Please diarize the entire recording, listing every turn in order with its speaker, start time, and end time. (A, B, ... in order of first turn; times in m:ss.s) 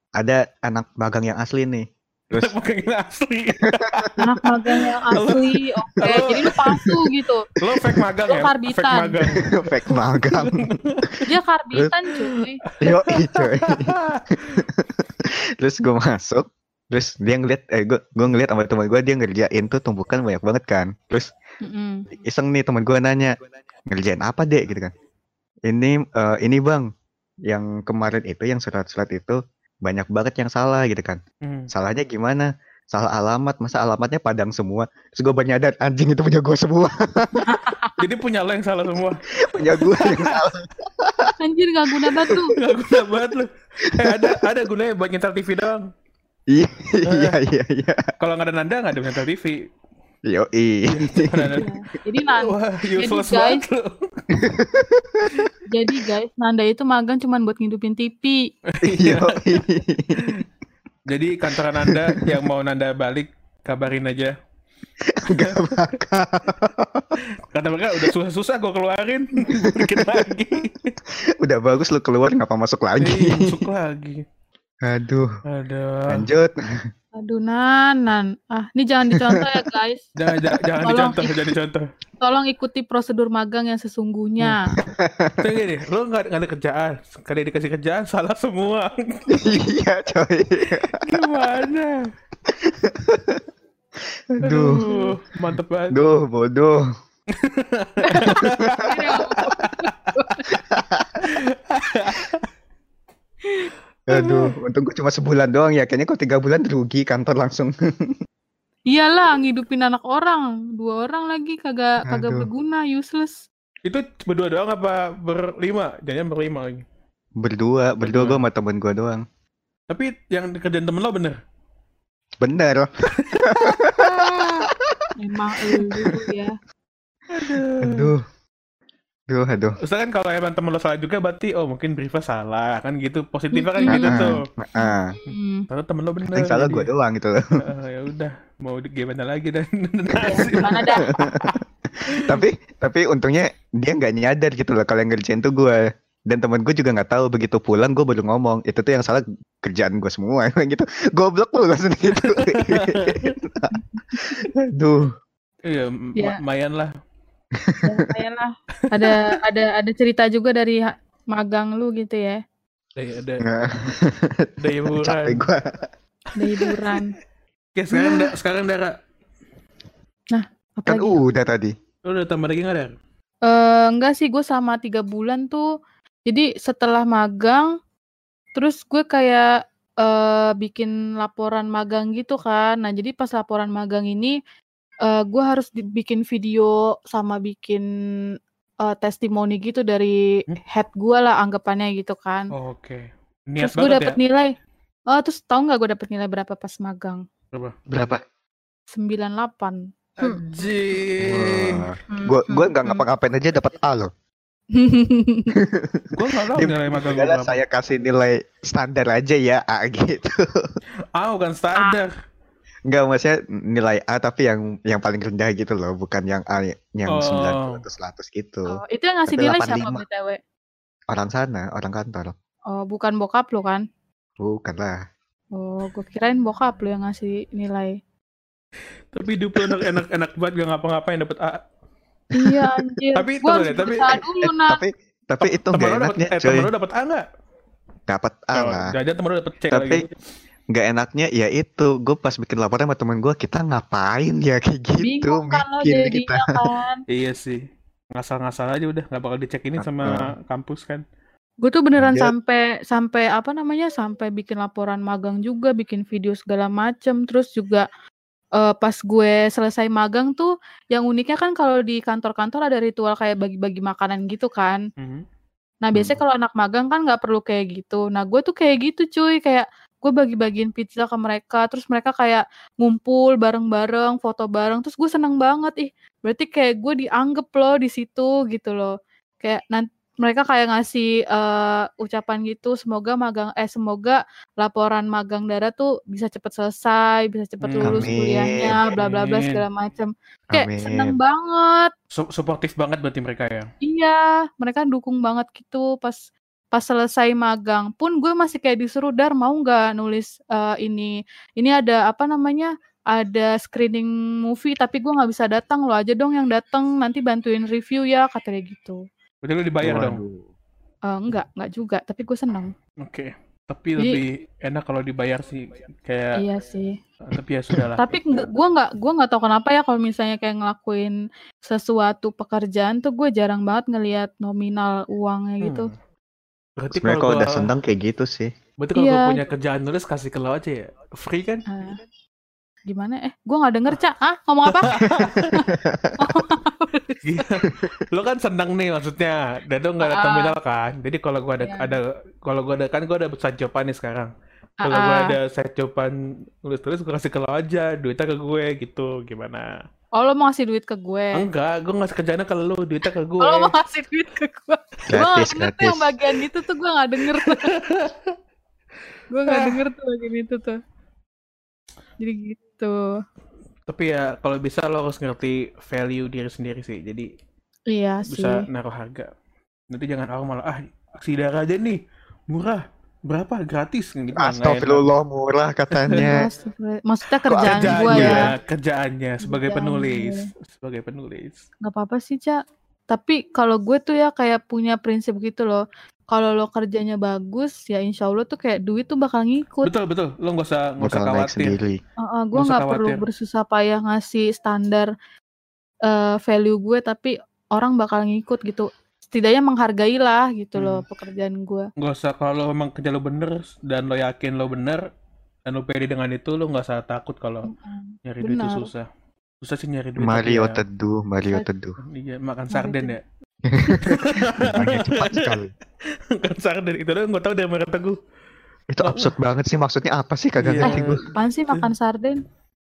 0:00.2-0:02.6 A
0:02.4-0:04.2 B
0:03.6-0:04.1 A
0:04.2-0:07.4 C
0:04.8-0:07.1 B
0:07.6-0:11.3 B
0:07.6-0:08.0 A
0:08.3-0:09.2 C
0:09.5-0:10.6 A
0:11.3-0:12.6 C
0:12.6-0:14.6 B
0:12.8-0:21.3 A
0:21.6-0:22.1 C
0:22.1-0:23.4 A
0:23.9-0:24.9 A
0:25.7-0:26.9 A
0:27.5-0:37.5 A
0:31.4-0:31.7 B
0:37.4-0:38.0 C
0:38.0-0:39.2 B
0:39.4-0:41.4 A
0:39.8-0:40.4 B
0:41.4-0:42.5 C
0:42.6-0:45.9 B
0:43.8-0:44.4 A
0:46.5-0:48.1 A
0:47.1-0:47.4 B
0:48.2-0:49.6 B
0:50.3-0:51.6 A
0:50.9-0:51.7 B
0:51.5-0:53.6 C
0:52.3-0:54.5 B
0:54.3-0:55.5 A
0:55.7-0:58.4 C
0:58.7-0:59.4 B
0:59.0-1:00.3 A
1:00.2-1:00.4 B
1:01.1-1:04.3 B
1:01.5-1:02.4 A
1:05.0-1:07.2 A
1:05.3-1:05.9 B
1:07.4-1:11.0 B
1:09.5-1:10.3 A
1:11.1-1:13.6 A
1:13.0-1:14.2 B
1:14.8-1:15.3 A
1:15.5-1:16.2 B
1:16.1-1:16.9 A
1:17.2-1:20.1 C
1:19.1-1:19.5 A
1:20.2-1:21.8 B
1:20.8-1:21.4 C
1:22.2-1:24.7 C
1:24.7-1:25.5 A
1:25.4-1:29.5 B
1:29.3-1:31.0 A
1:30.9-1:32.1 B
1:32.5-1:33.4 A
1:34.3-1:34.8 A
1:34.4-1:35.1 C
1:34.6-1:36.0 B
1:35.9-1:36.8 A
1:37.4-1:40.1 B
1:38.0-1:40.5 C
1:38.2-1:38.9 A
1:40.5-1:41.3 A
1:41.2-1:42.4 B
1:43.5-1:43.7 C
1:44.1-1:48.2 A
1:44.1-1:44.5 B
1:48.9-1:53.4 C
1:52.1-1:52.5 A
1:53.8-1:56.8 B
1:57.4-1:59.2 A
1:58.0-1:58.4 B
1:59.9-2:01.4 B
2:02.4-2:02.9 A
2:03.2-2:04.7 B
2:03.4-2:05.1 A
2:05.2-2:06.6 C
2:07.3-2:08.1 B
2:07.5-2:08.2 A
2:09.3-2:09.8 A
2:09.8-2:14.4 B
2:13.5-2:14.1 C
2:13.9-2:15.2 A
2:14.8-2:15.7 C
2:15.3-2:16.9 B
2:16.3-2:17.5 A
2:17.6-2:21.6 B
2:20.1-2:21.6 A
2:20.2-2:21.1 C
2:22.1-2:22.4 B
2:22.2-2:35.1 A
2:32.2-2:33.4 B
2:33.7-2:34.2 C
2:35.7-2:36.9 B
2:37.5-2:38.1 A
2:37.8-2:42.4 C
2:39.0-2:39.3 B
2:43.0-2:43.5 B
2:43.4-2:45.9 A
2:44.6-2:45.4 B
2:46.4-2:47.1 C
2:46.5-2:47.0 B
2:47.8-2:48.9 B
2:47.9-2:48.3 C
2:50.3-2:51.2 C
2:50.9-2:51.8 A
2:52.0-2:52.9 B
2:53.5-2:55.7 C
2:56.3-2:57.7 C
2:58.6-2:59.5 C
3:00.0-3:04.4 C
3:05.0-3:07.8 C
3:08.8-3:12.5 C
3:12.5-3:14.2 B
3:13.6-3:14.5 C
3:15.1-3:17.2 C
3:17.9-3:18.2 A
3:18.9-3:20.6 C
3:20.2-3:21.9 B
3:21.2-3:24.1 A
3:22.1-3:23.0 C
3:24.7-3:25.6 C
3:25.6-3:30.8 A
3:26.1-3:27.6 B
3:31.2-3:32.1 B
3:32.9-3:40.0 A
3:37.1-3:37.8 B
3:38.7-3:40.4 C
3:41.1-3:42.3 A
3:42.7-3:43.8 C
3:44.4-3:45.0 A
3:45.6-3:48.0 C
3:49.1-3:51.6 B
3:49.6-3:50.0 A
3:52.3-3:54.8 C
3:53.2-3:54.2 B
3:53.9-3:56.7 A
3:55.4-3:57.2 B
3:58.1-3:58.9 A
3:58.5-4:00.1 B
3:59.7-4:00.0 A
4:00.7-4:06.7 A
4:05.0-4:07.0 C
4:07.1-4:07.6 B
4:08.2-4:11.0 B
4:09.8-4:10.3 A
4:11.6-4:17.9 C
4:12.0-4:12.3 A
4:18.6-4:24.8 C
4:25.0-4:25.2 B
4:25.8-4:38.9 C
4:39.4-4:51.9 C
4:47.6-4:49.6 B
4:47.8-4:48.8 A
4:50.5-4:51.2 A
4:52.1-4:53.7 B
4:53.8-5:09.0 C
5:09.4-5:10.2 B
5:09.8-5:10.4 A
5:11.1-5:12.7 C
5:13.0-5:16.4 B
5:16.4-5:17.0 C
5:17.3-5:18.2 B
5:18.0-5:21.2 C
5:21.7-5:25.9 C
5:25.6-5:26.0 B
5:26.8-5:27.7 B
5:26.9-5:28.5 A
5:28.8-5:31.6 B
5:29.0-5:29.4 C
5:31.7-5:32.0 C
5:32.9-5:37.5 C
5:34.7-5:35.5 B
5:34.9-5:36.4 A
5:37.2-5:44.3 B
5:37.7-5:38.0 A
5:40.0-5:40.6 C
5:41.6-5:42.0 C
5:44.8-5:45.4 C
5:44.9-5:49.7 B
5:50.2-5:51.5 C
5:51.4-5:53.7 B
5:53.4-5:57.8 C
5:55.1-5:56.2 A
5:57.3-5:58.4 B
5:59.3-6:00.8 C
5:59.5-5:59.8 B
6:02.2-6:03.2 C
6:03.9-6:07.3 B
6:07.9-6:08.7 C
6:08.3-6:09.3 B
6:09.9-6:15.1 B
6:14.4-6:16.5 A
6:15.9-6:16.4 B
6:16.3-6:18.5 C
6:17.5-6:18.5 A
6:17.6-6:21.6 B
6:19.4-6:20.5 C
6:21.8-6:22.6 C
6:23.1-6:29.9 C
6:29.8-6:31.8 B
6:31.0-6:32.0 A
6:32.2-6:35.1 C
6:32.6-6:33.2 B
6:36.1-6:41.9 C
6:40.8-6:41.0 B
6:42.0-6:45.1 B
6:45.7-6:47.7 B
6:47.7-6:48.9 C
6:48.3-6:49.0 B
6:49.6-6:50.8 B
6:50.2-6:52.0 A
6:52.0-6:53.2 B
6:52.7-6:53.2 C
6:53.6-6:55.7 A
6:54.1-6:55.6 B
6:56.3-6:58.2 B
6:58.9-7:01.2 A
6:59.0-6:59.3 B
7:00.6-7:01.9 B
7:00.8-7:02.4 C